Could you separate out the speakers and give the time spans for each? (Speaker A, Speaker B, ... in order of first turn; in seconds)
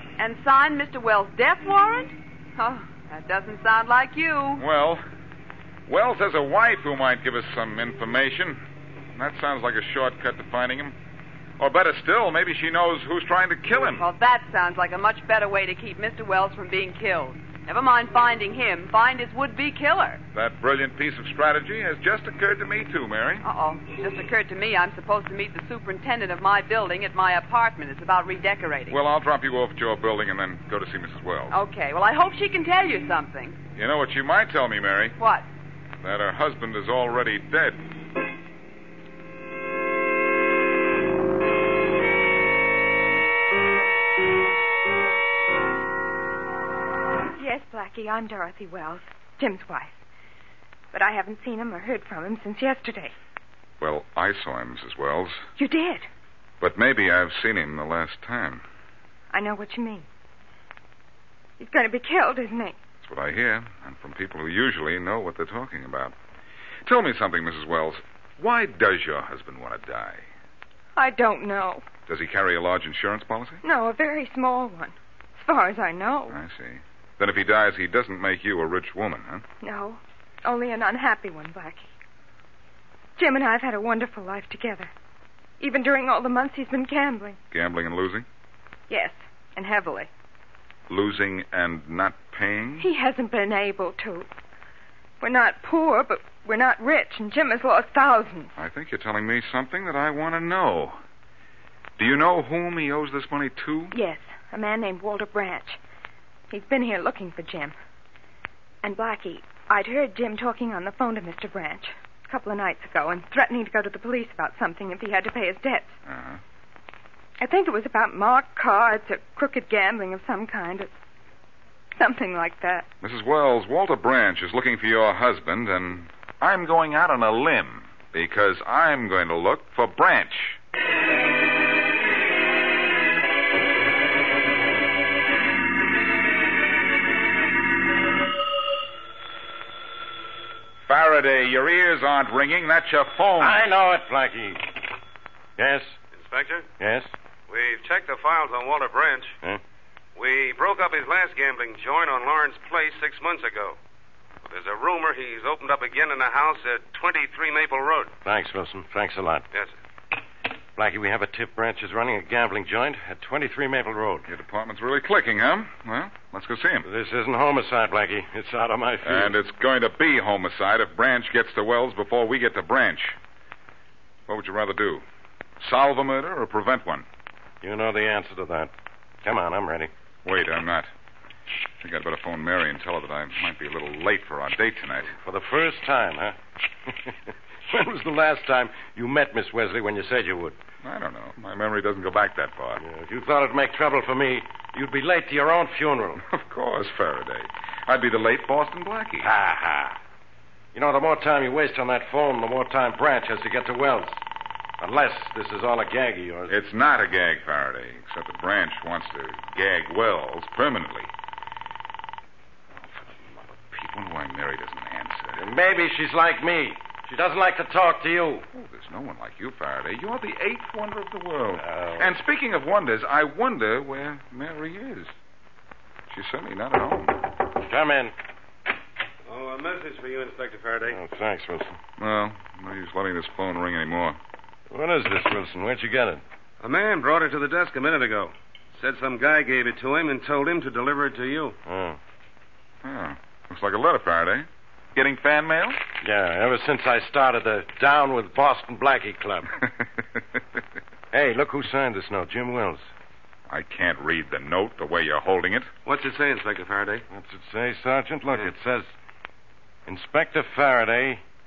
Speaker A: 0.2-4.6, 13.7-20.2, 23.4-29.0, 31.5-33.6, 35.2-35.5
Speaker B: 4.6-5.0, 5.8-8.6, 9.1-10.9, 11.6-14.1, 20.3-23.4, 28.9-31.6, 33.7-35.2, 36.0-37.8, 53.8-55.5, 56.6-58.6, 63.0-66.1, 66.8-70.2, 72.1-73.6, 76.3-79.4, 87.5-88.2, 90.9-92.9, 98.6-101.0, 102.0-103.9, 116.0-116.4, 123.0-130.6, 140.8-143.6, 164.3-166.8, 169.0-173.2, 174.3-175.0, 175.6-177.1, 180.2-180.9, 181.8-185.1, 190.8-192.8, 196.2-199.3, 206.5-211.1, 213.0-215.4, 218.5-225.1, 226.1-227.2, 232.0-234.2, 242.8-245.8, 253.5-255.7
Speaker C: 47.4-50.0, 50.9-53.1, 55.6-56.1, 59.3-60.0, 61.6-62.8, 71.0-71.8, 73.6-76.4, 79.6-81.8, 83.2-84.9, 85.6-87.4, 88.9-90.1, 92.8-94.3, 95.2-98.5, 103.9-105.8, 106.5-107.8, 108.8-115.9, 117.4-120.9, 122.0-122.9
Speaker D: 143.4-144.7, 145.6-145.9, 146.8-147.1, 158.2-159.4, 160.8-164.3, 166.8-169.3, 177.6-178.7, 179.2-179.9, 185.2-186.3, 186.9-187.1, 187.7-190.6, 192.8-196.2, 199.2-199.9, 200.7-204.2, 204.8-206.5, 215.3-218.4, 221.6-222.2, 227.6-228.1, 230.8-231.8, 234.7-236.2, 241.7-242.0, 246.0-249.5, 251.1-252.9, 257.1-258.9, 259.9-261.2
Speaker E: 146.1-146.7, 147.5-149.3, 150.2-153.8, 154.4-158.1, 229.2-231.0, 236.6-241.6, 255.8-257.0